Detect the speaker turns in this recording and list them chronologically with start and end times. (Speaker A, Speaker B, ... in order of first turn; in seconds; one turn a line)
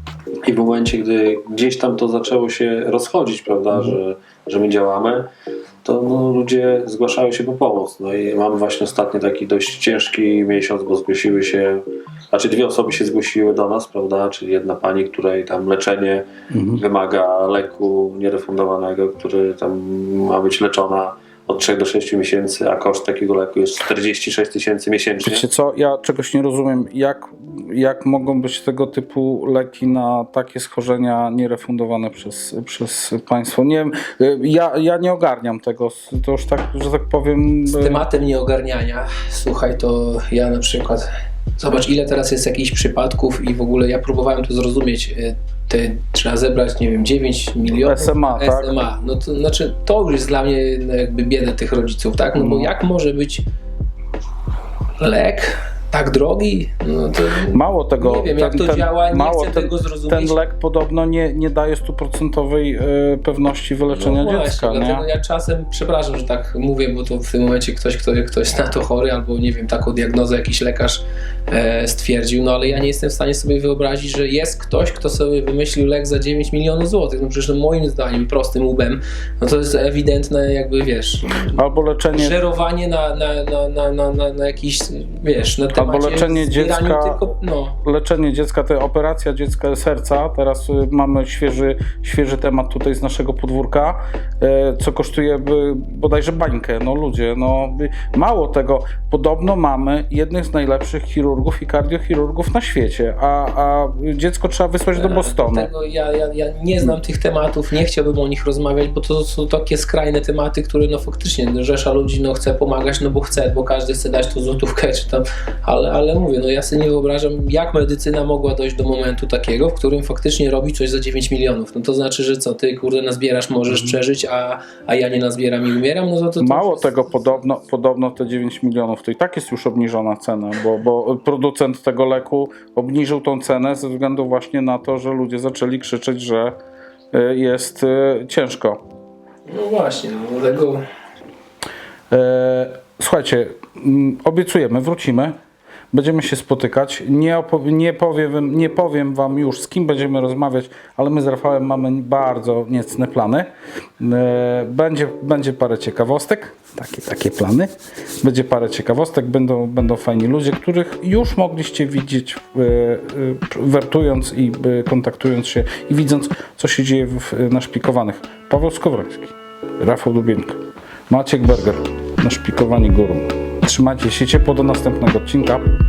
Speaker A: 0.4-5.3
Speaker A: 5.8-25.5
Speaker B: 16.5-16.8
Speaker B: 25.2-38.0
Speaker C: 37.7-53.5
Speaker B: 47.8-48.7
Speaker B: 52.4-52.7
Speaker C: 55.0-60.4
Speaker B: 57.5-65.0
Speaker C: 63.9-81.6
Speaker B: 81.5-82.4
Speaker C: 82.1-87.8
Speaker B: 85.7-87.2
Speaker B: 87.8-105.7
Speaker C: 105.0-126.9
Speaker B: 126.4-136.6
Speaker B: 137.1-138.8
Speaker C: 139.5-140.8
Speaker B: 142.1-145.4
Speaker B: 145.9-175.7